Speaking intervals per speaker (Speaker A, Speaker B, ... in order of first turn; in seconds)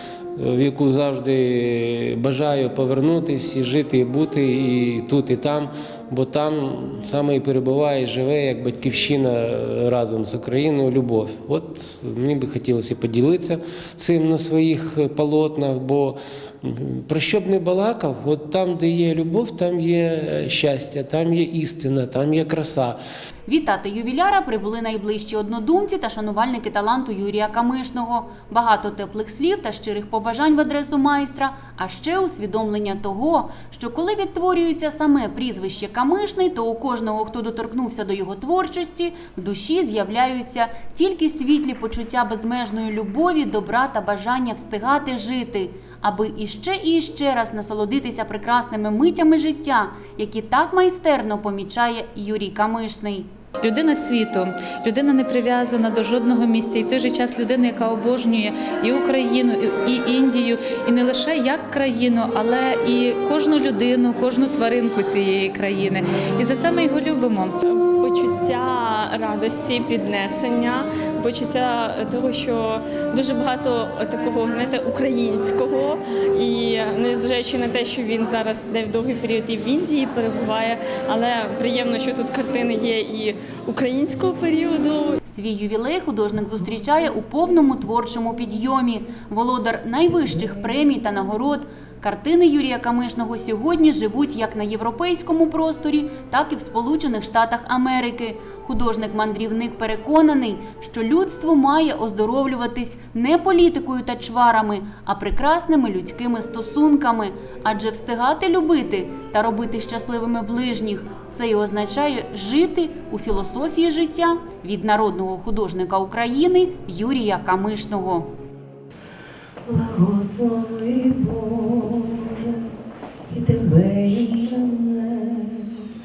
Speaker A: 0.4-23.0
Speaker B: 23.5-53.3, 85.3-118.3
Speaker C: 53.6-67.5
Speaker D: 67.7-85.2
Speaker E: 119.7-122.6, 123.3-125.8